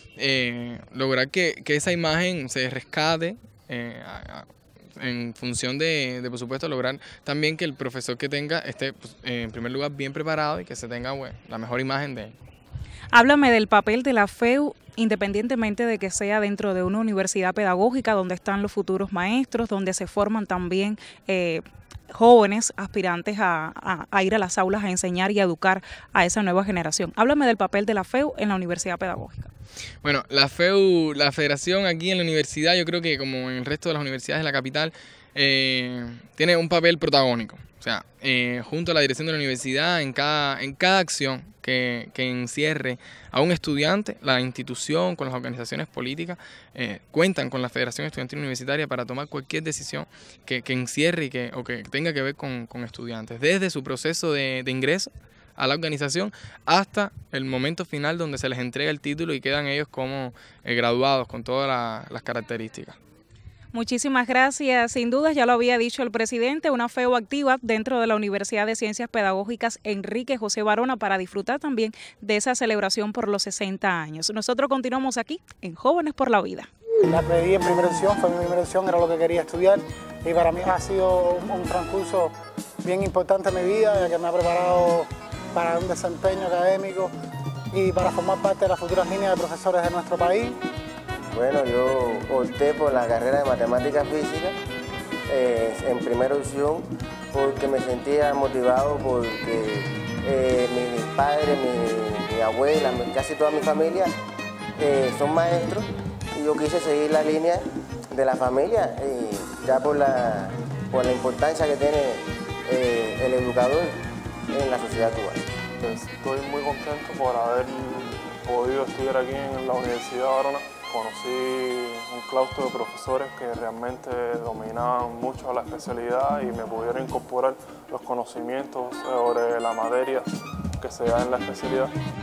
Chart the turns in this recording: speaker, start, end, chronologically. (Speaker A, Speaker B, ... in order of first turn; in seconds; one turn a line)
Speaker A: 0.2-12.3
Speaker B: 13.1-29.5
Speaker A: 30.0-63.0
Speaker B: 63.7-76.7
Speaker C: 77.1-82.3
Speaker C: 82.8-87.1
Speaker C: 87.7-90.6
Speaker D: 91.3-94.6
Speaker D: 95.3-104.1
Speaker D: 104.8-113.9
Speaker D: 114.5-115.4
Speaker E: 115.8-131.9